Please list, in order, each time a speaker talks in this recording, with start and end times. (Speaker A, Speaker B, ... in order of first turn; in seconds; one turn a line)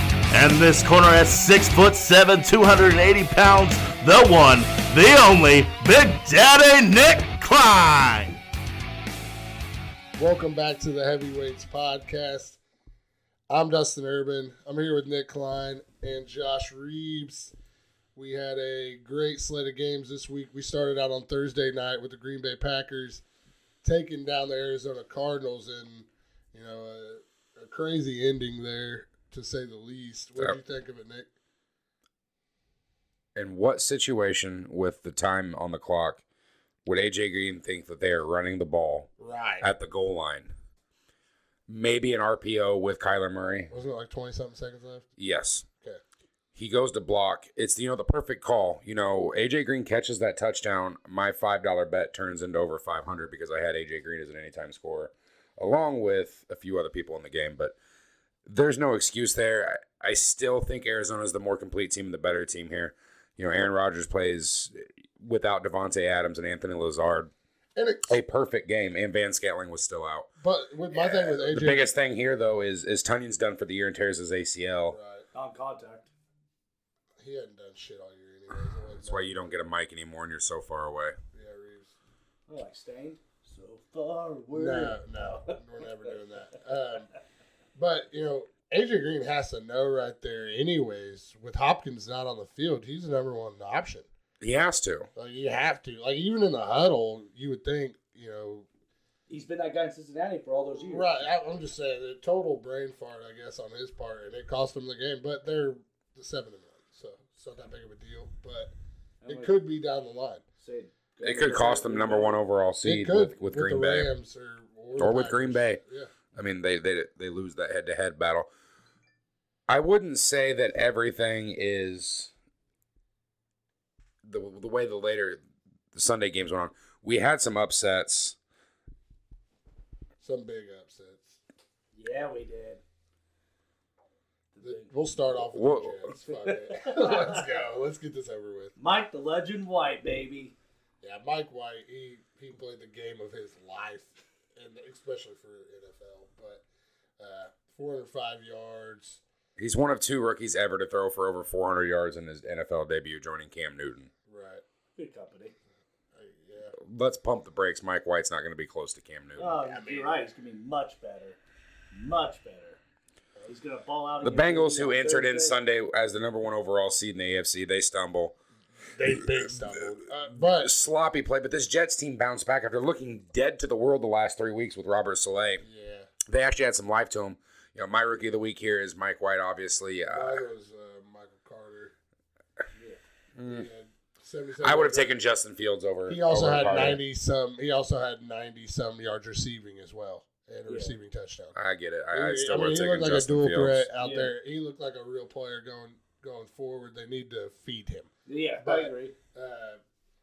Speaker A: 0.3-8.3
Speaker B: 10.2-12.6
Speaker B: 13.5-17.5
Speaker B: 18.1-23.2
Speaker B: 23.8-31.3
Speaker C: 33.4-36.2
Speaker C: 36.9-40.5
Speaker B: 39.2-39.7
Speaker C: 41.7-43.7
Speaker B: 43.7-45.1
Speaker C: 45.2-45.7
Speaker C: 46.5-57.7
Speaker C: 58.5-67.3
Speaker B: 67.8-68.2
Speaker C: 68.1-70.3
Speaker B: 70.4-71.9
Speaker C: 70.9-75.0
Speaker B: 74.9-75.2
Speaker D: 75.3-76.1
Speaker B: 77.2-79.3
Speaker C: 79.0-81.1
Speaker B: 81.3-81.9
Speaker D: 82.5-85.6
Speaker B: 84.5-87.1
Speaker B: 87.8-94.1
Speaker C: 94.4-95.1
Speaker B: 95.2-98.7
Speaker D: 99.3-101.2
Speaker B: 100.8-108.7
Speaker D: 109.2-109.5
Speaker B: 109.3-110.4
Speaker D: 110.6-112.4
Speaker C: 111.2-114.1
Speaker B: 112.8-116.1
Speaker C: 115.0-115.8
Speaker C: 116.3-118.5
Speaker C: 119.7-122.3
Speaker C: 124.2-125.4
Speaker C: 125.9-128.3
Speaker B: 130.2-131.4
Speaker D: 131.9-132.8
Speaker D: 134.5-134.9
Speaker B: 134.6-138.7
Speaker C: 135.5-136.1
Speaker D: 136.1-137.5
Speaker D: 138.8-140.5
Speaker B: 141.0-146.6
Speaker B: 147.2-149.2
Speaker C: 149.6-154.1
Speaker B: 154.2-154.6
Speaker D: 154.9-155.5
Speaker B: 156.1-156.8
Speaker C: 156.8-159.6
Speaker D: 159.4-161.4
Speaker B: 159.6-160.1
Speaker D: 161.9-162.8
Speaker D: 163.5-165.6
Speaker C: 164.2-168.3
Speaker B: 168.9-170.7
Speaker C: 170.3-175.6
Speaker B: 175.6-176.1
Speaker C: 176.2-180.4
Speaker B: 180.1-181.9
Speaker D: 182.7-183.0
Speaker C: 183.4-183.7
Speaker B: 183.4-185.2
Speaker C: 184.6-187.0
Speaker B: 186.1-191.5
Speaker D: 190.7-190.9
Speaker C: 191.5-193.8
Speaker B: 192.1-199.8
Speaker D: 194.0-194.3
Speaker D: 198.2-199.1